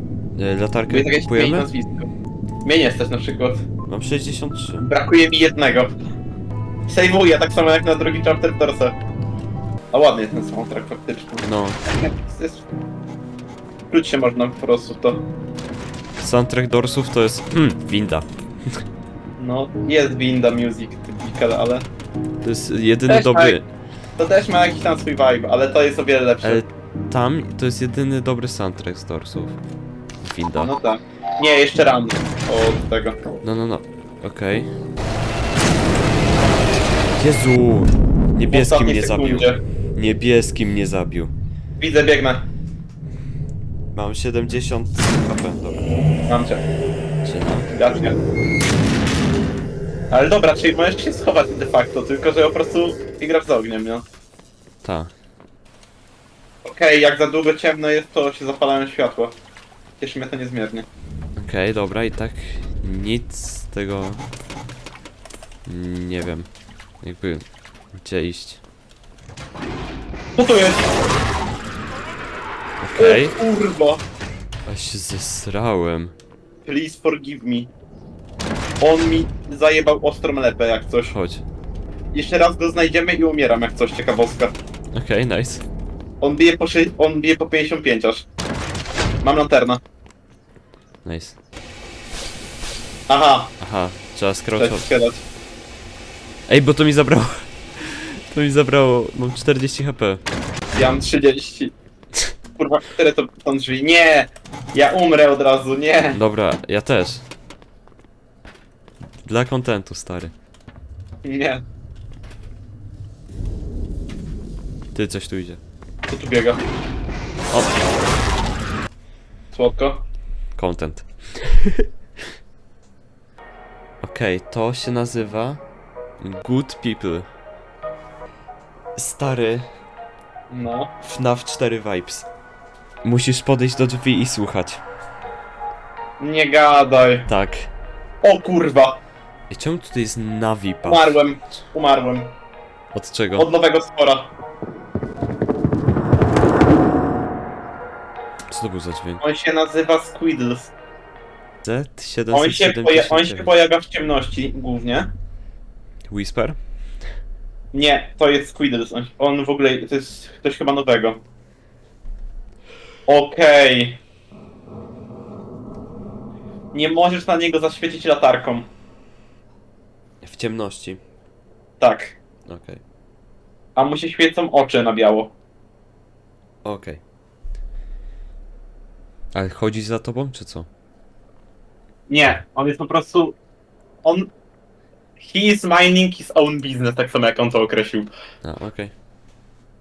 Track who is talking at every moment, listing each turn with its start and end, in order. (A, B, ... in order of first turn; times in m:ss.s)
0:00.4-0:01.7 A
0:00.9-0:02.1 B
0:02.6-0:03.7 B
0:03.9-0:04.9 A
0:04.8-0:05.9 B
0:06.9-0:09.0 B
0:09.9-0:12.7 B
0:11.4-0:11.8 A
0:13.9-0:15.2 B
0:16.2-0:18.8 A
0:19.4-0:21.9 B
0:22.4-0:23.7 A
0:23.1-0:23.6 B
0:24.2-0:26.6 B
0:26.4-0:29.6 A
0:30.2-0:30.8 A
0:30.6-0:33.2 B
0:33.4-0:34.7 A
0:37.2-0:41.3 A
0:38.5-0:39.6 B
0:41.8-0:42.5 B
0:43.9-0:45.9 A
0:46.3-0:46.6 B
0:47.2-0:47.7 A
0:47.7-0:48.2 B
0:50.1-0:54.1 B
0:54.8-0:55.1 A
0:56.6-0:59.4 B
1:00.0-1:00.9 B
1:01.4-1:04.2 A
1:05.7-1:06.5 A
1:07.0-1:08.6 A
1:10.4-1:10.9 B
1:12.8-1:13.4 A
1:13.0-1:14.0 B
1:14.7-1:16.2 A
1:16.6-1:17.7 B
1:18.8-1:21.2 B
1:21.1-1:21.4 A
1:22.1-1:24.6 B
1:24.9-1:25.6 A
1:26.2-1:28.3 B
1:29.2-1:29.8 B
1:31.0-1:31.4 A
1:33.1-1:33.5 B
1:33.6-1:34.9 A
1:34.6-1:35.2 B
1:36.5-1:40.2 A
1:40.7-1:41.7 B
1:42.6-1:46.2 B
1:46.1-1:47.3 A
1:49.2-1:50.3 A
1:51.2-1:51.6 B
1:54.9-1:55.6 A
1:56.1-1:56.6 B
1:57.5-1:57.8 A
1:59.5-2:00.0 B
2:00.6-2:01.9 A
2:04.0-2:05.6 A
2:06.2-2:07.3 A
2:09.0-2:09.7 A
2:10.5-2:10.9 B
2:11.0-2:12.3 A
2:13.0-2:14.8 A
2:16.2-2:17.3 B
2:17.3-2:17.7 A
2:18.2-2:19.0 B
2:19.5-2:21.1 A
2:20.8-2:22.3 B
2:22.9-2:23.5 A
2:23.4-2:24.3 B
2:28.5-2:29.2 A
2:29.2-2:30.7 B
2:31.6-2:33.5 A
2:32.3-2:35.1 B
2:36.1-2:36.6 A
2:37.7-2:41.2 B
2:43.1-2:44.0 B
2:46.7-2:48.7 B
2:50.2-2:51.0 A
2:51.8-2:52.2 B
2:52.5-2:52.8 A
2:53.8-2:55.3 B
2:56.6-2:57.0 A
2:59.3-3:00.7 A
3:02.1-3:03.4 B
3:04.0-3:04.3 B
3:05.2-3:08.1 B
3:08.4-3:08.9 A